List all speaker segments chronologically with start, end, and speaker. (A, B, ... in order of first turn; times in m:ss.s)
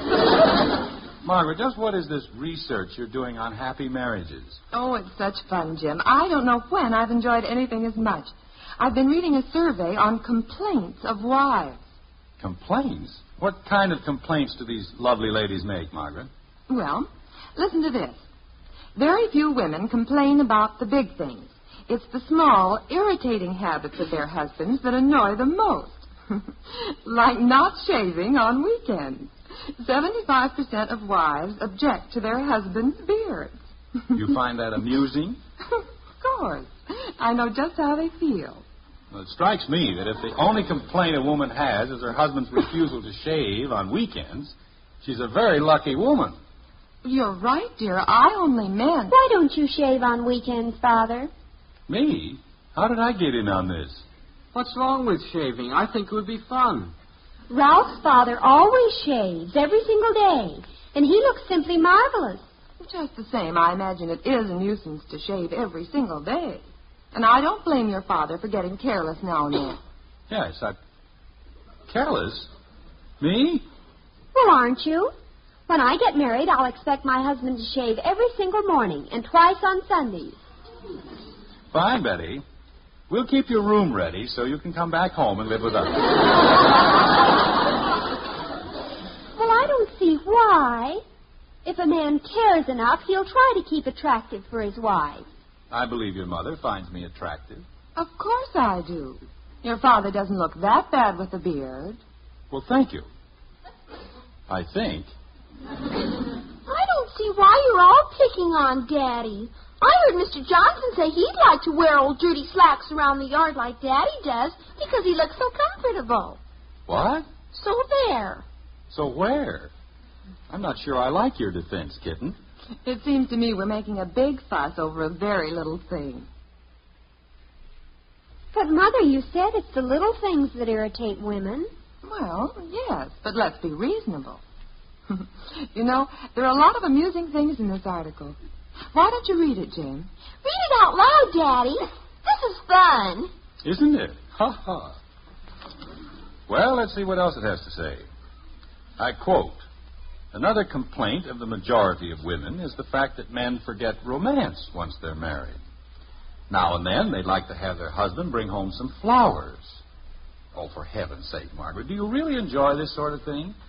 0:01.2-0:04.6 A
0:04.7-0:11.8 B
0:12.4-0:16.3 A
0:16.7-0:18.2 B
0:18.9-0:33.6 B
0:34.1-0:35.4 A
0:36.2-0:38.6 B
0:39.1-0:46.4 A
0:47.0-0:49.1 B
0:49.1-0:51.3 C
0:51.9-0:54.0 A
0:54.5-0:56.9 D
0:57.5-1:02.4 C
1:02.8-1:09.8 B
1:10.3-1:10.8 A
1:11.9-1:12.5 A
1:13.2-1:13.6 A
1:14.3-1:15.1 C
1:15.7-1:20.4 C
1:21.7-1:22.4 A
1:23.1-1:26.1 A
1:29.4-1:31.0 C
1:31.6-1:35.2 C
1:35.7-1:37.6 A
1:38.0-1:42.0 B
1:42.5-1:43.1 A
1:44.5-1:45.1 A
1:46.7-1:56.4 E
1:56.9-1:57.2 A
1:57.5-1:58.4 E
1:58.9-1:59.7 A
2:00.5-2:02.4 A
2:02.8-2:06.3 B
2:08.5-2:11.7 C
2:12.0-2:14.4 B
2:15.1-2:18.4 B
2:18.9-2:20.1 B
2:20.4-2:23.3 E
2:23.6-2:25.0 A
2:26.5-2:28.0 A
2:29.0-2:29.6 A
2:30.3-2:35.6 A
2:36.5-2:39.8 A
2:40.5-2:43.6 A